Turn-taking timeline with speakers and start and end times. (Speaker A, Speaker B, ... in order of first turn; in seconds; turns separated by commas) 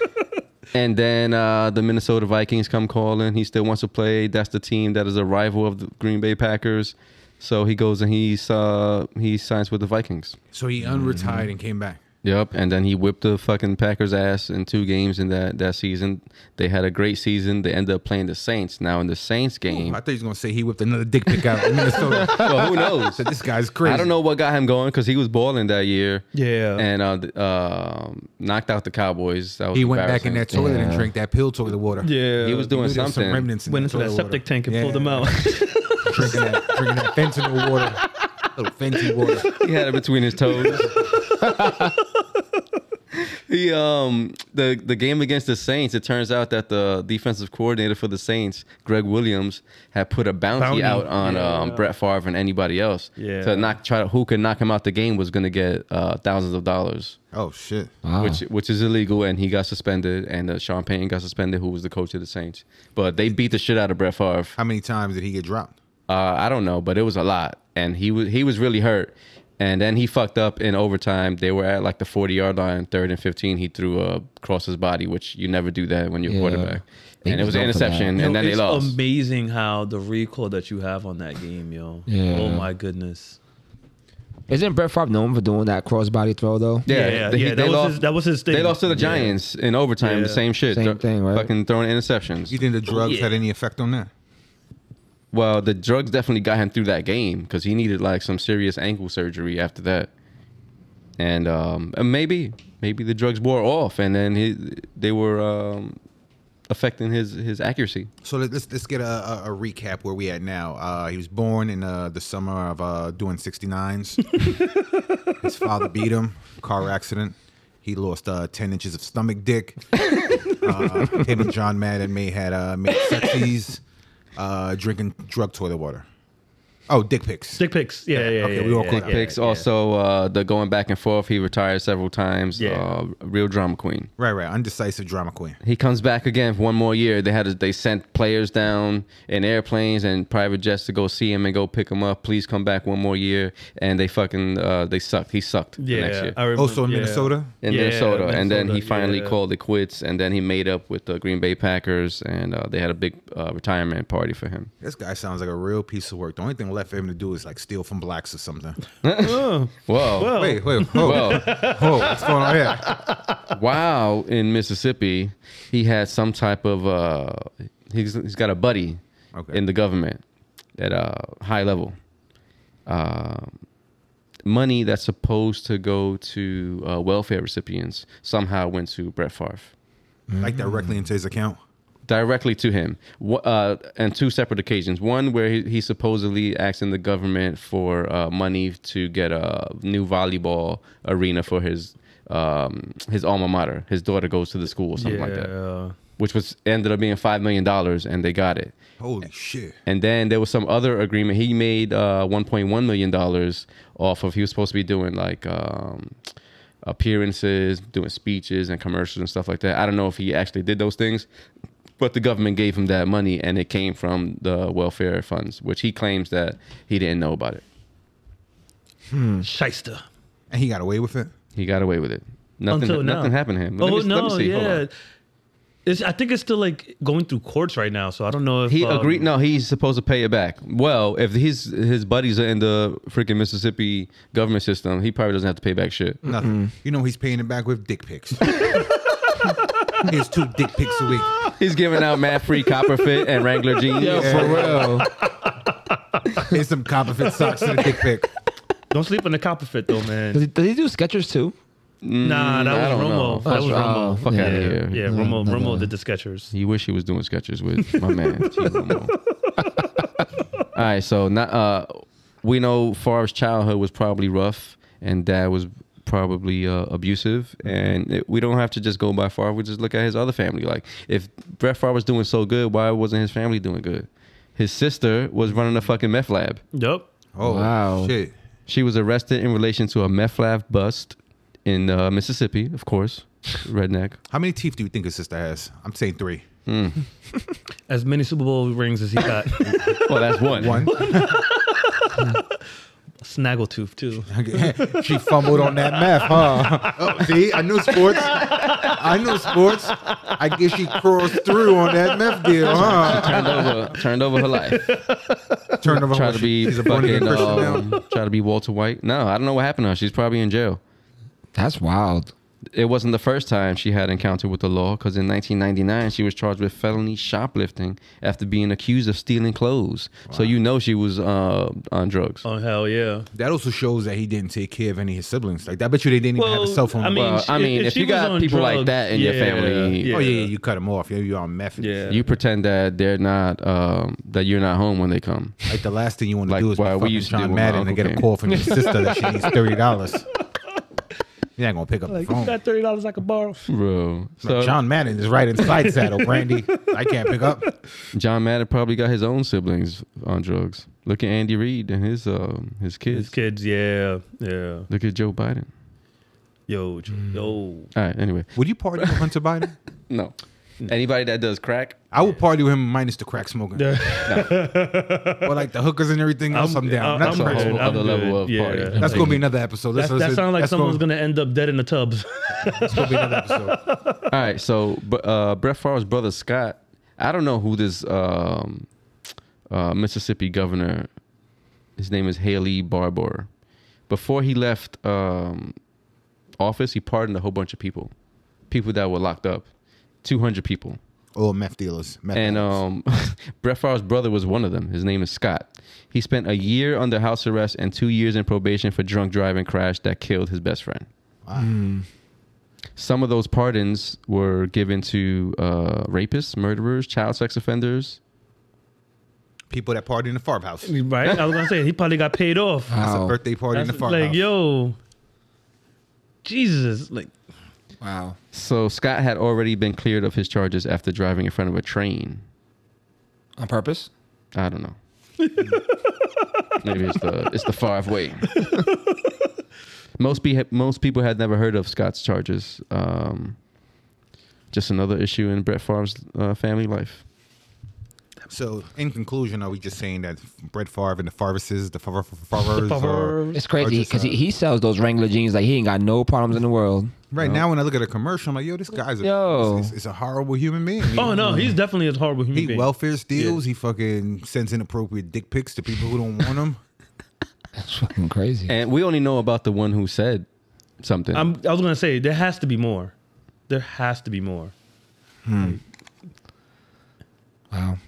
Speaker A: 0.7-10.4, Speaker B: 10.5-12.0, Speaker C: 10.8-11.5, Speaker A: 12.2-20.0, Speaker B: 19.7-24.1, Speaker A: 22.2-23.3, Speaker A: 23.8-30.5, Speaker D: 26.3-26.8, Speaker B: 29.7-35.3, Speaker C: 30.5-31.1, Speaker D: 32.0-32.7, Speaker A: 32.4-33.5, Speaker D: 33.6-36.9, Speaker B: 36.0-39.5, Speaker D: 37.6-37.9, Speaker A: 39.5-40.9, Speaker D: 40.6-41.9, Speaker A: 43.1-57.2, Speaker D: 50.5-51.9, Speaker D: 53.2-53.8, Speaker B: 57.3-57.9, Speaker C: 58.0-58.4, Speaker A: 58.2-64.5, Speaker B: 64.5-65.7, Speaker A: 66.1-79.0, Speaker C: 76.3-78.1, Speaker D: 78.2-83.4, Speaker C: 82.1-82.7, Speaker C: 84.5-86.9, Speaker A: 86.8-92.6, Speaker D: 86.8-89.3, Speaker D: 90.0-90.4, Speaker C: 90.7-91.5, Speaker B: 92.5-94.1, Speaker D: 92.9-93.3, Speaker A: 95.3-100.1, Speaker A: 101.2-106.0, Speaker A: 106.7-108.1, Speaker B: 108.2-114.4, Speaker B: 115.4-123.8, Speaker B: 124.3-126.0, Speaker B: 126.9-129.2, Speaker D: 127.6-129.7, Speaker A: 128.9-134.1, Speaker D: 132.6-132.9, Speaker B: 134.2-135.6, Speaker A: 135.6-146.3, Speaker D: 145.8-149.4, Speaker B: 146.5-147.5, Speaker A: 147.6-154.7, Speaker B: 154.8-158.8, Speaker A: 159.0-160.3, Speaker D: 159.2-163.4, Speaker B: 160.3-163.0, Speaker A: 160.8-161.7, Speaker A: 163.5-170.2, Speaker B: 169.3-169.6, Speaker A: 170.8-171.9, Speaker A: 172.9-173.6, Speaker A: 174.4-179.7, Speaker C: 180.3-180.9, Speaker B: 180.4-181.6, Speaker A: 182.1-195.5, Speaker D: 195.0-195.9, Speaker A: 196.2-198.7, Speaker B: 199.0-199.8, Speaker A: 199.8-206.2, Speaker A: 206.8-211.3, Speaker A: 212.0-217.6, Speaker C: 219.1-219.4, Speaker D: 219.4-220.0, Speaker B: 220.5-221.3, Speaker A: 221.5-224.8, Speaker D: 222.7-224.9, Speaker D: 225.8-229.3, Speaker A: 228.7-236.2, Speaker B: 236.2-238.8, Speaker C: 236.3-236.7, Speaker B: 240.0-241.3, Speaker A: 241.5-244.8, Speaker C: 243.9-245.1, Speaker B: 244.0-245.0, Speaker B: 246.5-248.3, Speaker D: 247.4-247.9, Speaker D: 248.9-250.4, Speaker C: 250.3-251.5, Speaker A: 252.0-255.2, Speaker D: 252.2-256.5, Speaker C: 253.4-255.9, Speaker A: 256.5-259.1, Speaker A: 260.7-276.6, Speaker B: 267.6-267.9, Speaker D: 276.7-277.1, Speaker B: 277.3-278.3, Speaker C: 277.4-278.1, Speaker A: 278.7-284.2, Speaker B: 284.3-286.4, Speaker A: 286.6-287.0, Speaker D: 287.9-290.0, Speaker B: 289.6-291.4, Speaker A: 290.0-290.9, Speaker D: 291.0-292.4, Speaker D: 293.2-305.7, Speaker B: 294.3-303.7, Speaker A: 302.7-304.9, Speaker B: 305.8-307.9, Speaker A: 306.1-310.8, Speaker C: 311.5-312.3, Speaker A: 312.7-322.4, Speaker B: 320.3-320.6, Speaker D: 322.4-323.3, Speaker B: 323.3-327.2, Speaker D: 326.4-330.5, Speaker A: 327.1-330.2, Speaker B: 330.1-332.1, Speaker D: 331.8-332.2, Speaker A: 332.1-335.6, Speaker B: 335.7-340.2, Speaker A: 336.5-338.3, Speaker D: 338.5-339.6, Speaker B: 341.6-342.6, Speaker D: 342.1-343.7, Speaker A: 343.7-344.8, Speaker B: 344.4-347.7, Speaker D: 345.7-346.5, Speaker D: 347.1-347.5, Speaker A: 348.1-353.3, Speaker D: 353.1-354.9, Speaker A: 354.9-355.7, Speaker D: 356.7-357.9, Speaker A: 357.9-359.1, Speaker B: 358.5-359.7, Speaker A: 360.1-362.0, Speaker B: 362.1-364.2, Speaker D: 363.8-365.6, Speaker A: 364.2-364.5, Speaker B: 365.4-368.0, Speaker D: 366.5-374.2, Speaker A: 367.2-369.3, Speaker C: 368.9-369.2, Speaker B: 368.9-371.0, Speaker B: 372.8-373.8, Speaker A: 374.3-378.9, Speaker A: 379.7-381.1, Speaker A: 382.0-383.5, Speaker A: 384.1-385.7, Speaker A: 386.6-388.1, Speaker A: 388.7-389.7, Speaker A: 390.2-391.0, Speaker B: 391.3-392.8, Speaker A: 392.3-401.1, Speaker B: 401.4-401.7, Speaker C: 401.5-402.0, Speaker A: 403.0-408.2, Speaker B: 409.7-410.9, Speaker D: 410.8-413.0, Speaker C: 412.9-413.4, Speaker B: 413.0-414.5, Speaker D: 413.7-414.9, Speaker D: 416.4-417.3, Speaker C: 418.0-418.4, Speaker A: 418.5-422.4, Speaker C: 423.6-424.1, Speaker A: 424.5-424.9, Speaker D: 425.4-425.8, Speaker A: 426.8-428.5, Speaker D: 428.5-429.1, Speaker A: 430.2-433.6, Speaker A: 434.7-437.2, Speaker B: 438.5-444.4, Speaker D: 442.6-443.6, Speaker C: 443.5-447.6, Speaker B: 447.3-451.6, Speaker C: 449.2-449.9, Speaker D: 451.1-453.6, Speaker C: 451.3-451.7, Speaker B: 452.5-456.8, Speaker C: 457.8-458.7, Speaker A: 458.7-460.4, Speaker A: 461.0-461.5, Speaker D: 461.3-463.1, Speaker D: 463.7-464.7, Speaker C: 465.4-465.8, Speaker C: 467.7-468.0